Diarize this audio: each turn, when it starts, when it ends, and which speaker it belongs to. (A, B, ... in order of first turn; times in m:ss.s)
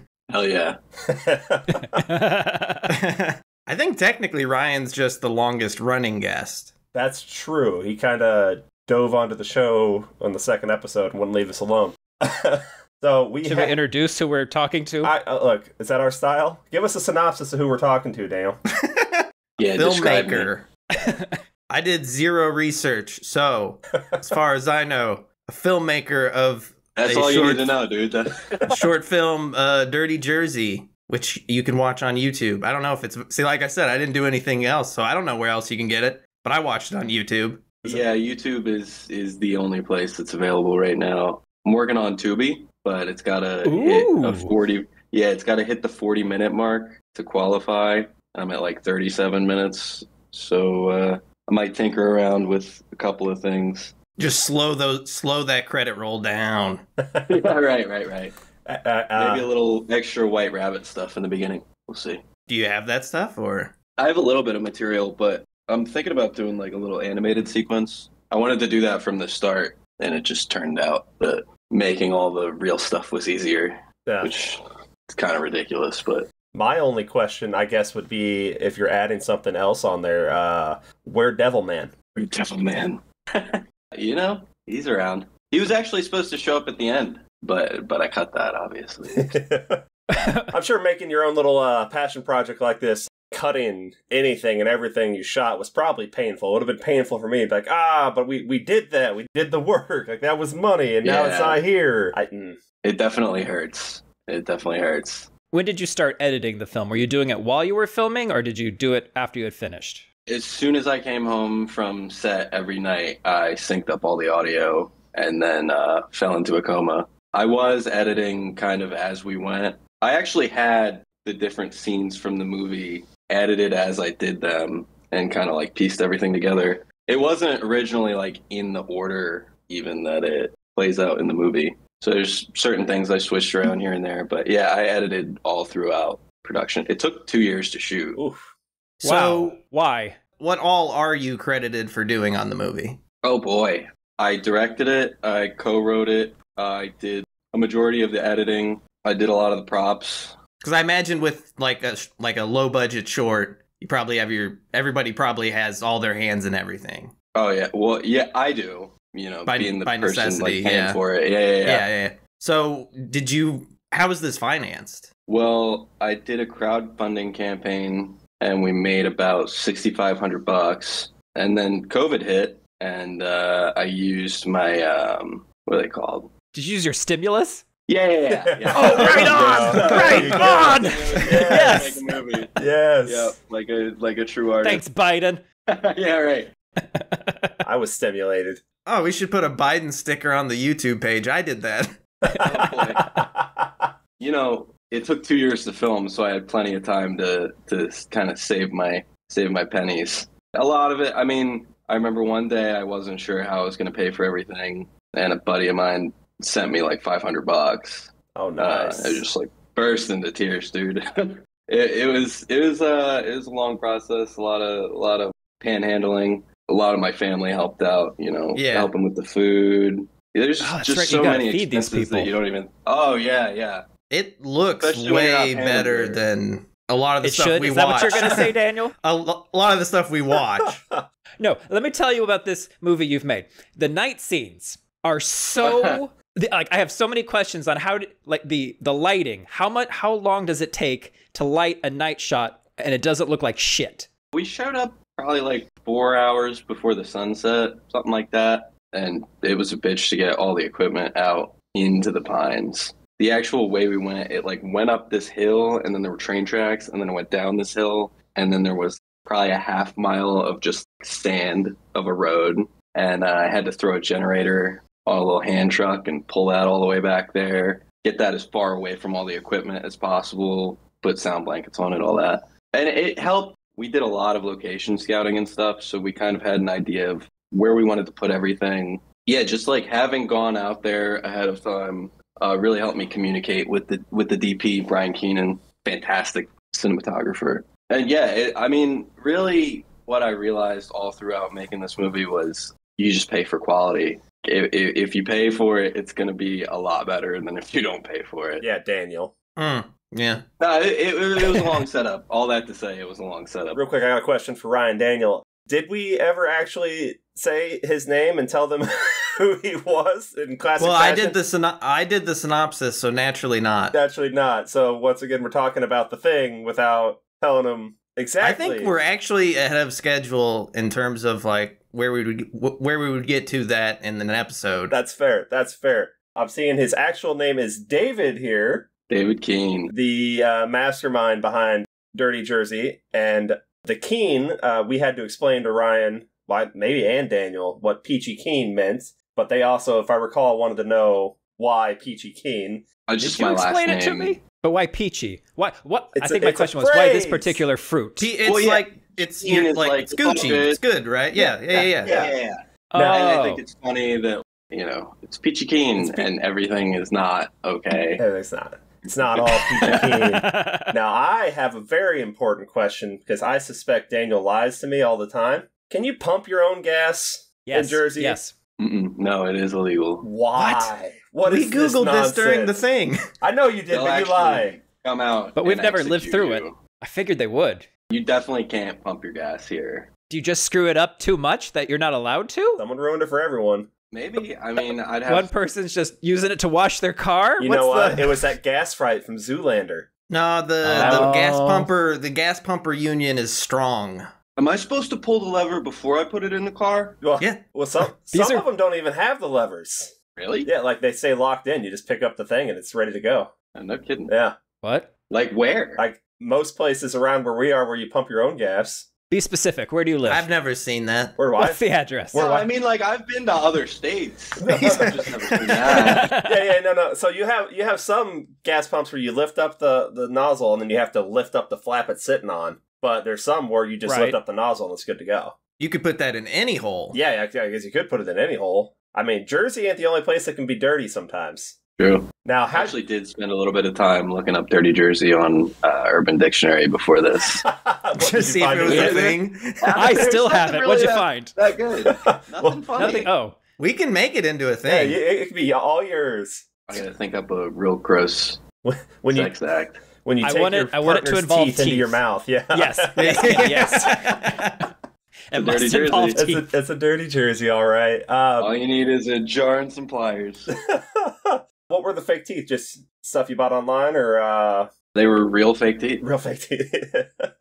0:00.3-0:00.8 A
0:01.1-0:02.0 B
0:01.9-0:02.9 C
0:02.9-0:06.8 D
0:06.9-0:13.7 B
0:13.4-0:15.1 C
0:15.0-0:18.6 B
0:18.8-0:20.7 D
0:19.6-0:20.5 A
0:21.0-0:21.4 C
0:21.7-0:27.7 D
0:27.0-0:28.7 A
0:28.7-0:37.7 D
0:37.8-0:54.0 A
0:43.6-0:44.5 C
0:54.2-0:56.8 D
0:57.0-0:57.4 B
0:57.3-0:58.3 A
0:58.6-0:59.5 B
0:59.2-1:02.2 A
1:02.5-1:03.7 D
1:04.0-1:16.3 A
1:14.0-1:14.5 B
1:16.5-1:21.9 B
1:22.1-1:29.4 A
1:29.1-1:29.8 B
1:30.1-1:30.5 C
1:30.5-1:42.6 B
1:41.0-1:41.6 A
1:42.8-1:45.3 A
1:45.5-1:50.0 C
1:50.3-2:18.2 A
2:18.1-2:18.4 B
2:19.0-2:19.6 D
2:19.0-2:20.2 C
2:20.4-2:23.0 D
2:23.2-2:30.4 A
2:30.6-2:37.1 D
2:37.3-2:41.8 A
2:39.4-2:41.0 D
2:41.6-2:45.1 D
2:45.3-2:56.3 A
2:56.5-2:57.7 C
2:57.9-3:02.5 A
2:58.3-3:01.9 B
2:58.7-3:02.6 C
3:00.0-3:00.6 D
3:02.6-3:03.3 B
3:03.1-3:04.8 A
3:04.6-3:05.4 C
3:05.7-3:06.5 A
3:06.8-3:07.5 C
3:07.6-3:08.6 B
3:08.8-3:12.0 D
3:12.3-3:13.9 B
3:12.4-3:13.1 A
3:14.2-3:43.8 A
3:28.3-3:29.2 B
3:38.5-3:38.9 D
3:40.6-3:42.3 C
3:44.1-3:50.8 D
3:44.8-3:46.2 A
3:47.2-3:48.9 C
3:50.6-3:51.0 B
3:51.4-4:04.1 C
3:55.6-3:56.0 A
4:04.3-4:58.6 A
4:58.6-4:59.3 B
4:59.6-5:00.4 D
5:00.6-5:03.8 A
5:03.7-5:11.4 B
5:10.8-5:14.0 D
5:13.9-5:19.0 B
5:18.4-5:24.9 D
5:24.9-5:28.9 B
5:29.1-5:29.9 A
5:29.9-5:42.8 B
5:43.1-5:44.4 A
5:43.2-5:48.3 C
5:46.2-5:47.6 B
5:48.2-5:52.3 D
5:48.4-5:50.8 A
5:51.7-5:58.2 A
5:52.0-5:52.3 B
5:52.9-5:53.6 C
5:58.2-6:08.4 B
5:59.6-6:00.9 C
5:59.8-6:00.1 A
6:07.6-6:08.5 C
6:08.8-6:10.3 A
6:10.2-6:12.8 B
6:10.6-6:10.9 C
6:11.4-6:13.2 D
6:13.4-6:14.8 B
6:13.9-6:16.8 A
6:15.6-6:17.9 C
6:18.1-6:20.1 A
6:20.3-6:22.8 C
6:22.8-6:23.9 B
6:24.1-6:25.5 A
6:25.2-6:28.5 C
6:27.6-6:30.1 B
6:30.3-6:34.2 D
6:30.8-6:31.9 C
6:31.0-6:31.3 B
6:34.6-6:37.2 A
6:37.2-6:40.1 B
6:38.3-6:38.7 C
6:40.4-6:40.7 A
6:40.6-6:43.5 B
6:43.7-6:44.3 A
6:44.3-6:44.6 B
6:44.8-6:45.1 C
6:45.3-6:46.0 A
6:46.0-6:49.1 B
6:49.3-6:50.5 C
6:50.2-6:51.4 D
6:51.4-6:52.7 B
6:51.6-6:52.4 C
6:52.3-6:56.3 A
6:54.6-6:55.2 B
6:54.7-6:56.0 D
6:55.9-7:05.6 B
6:56.0-6:56.6 C
7:04.0-7:04.4 C
7:05.8-7:07.2 D
7:07.1-7:11.8 B
7:12.0-7:17.6 A
7:12.4-7:13.0 B
7:17.6-7:19.2 B
7:18.2-7:19.2 C
7:18.7-7:20.4 D
7:18.9-7:23.3 A
7:20.0-7:21.5 C
7:22.0-7:23.2 B
7:23.0-7:23.6 C
7:23.8-7:25.2 D
7:24.8-7:27.0 B
7:26.9-7:28.6 A
7:28.8-7:29.5 B
7:29.3-7:30.0 A
7:30.2-7:34.1 B
7:30.4-7:32.2 C
7:32.7-7:34.3 C
7:33.2-7:34.9 D
7:35.5-7:36.7 C
7:35.5-7:36.4 A
7:36.3-7:38.7 B
7:38.6-7:40.7 A
7:40.9-7:44.9 B
7:45.1-7:46.2 A
7:46.2-7:47.5 B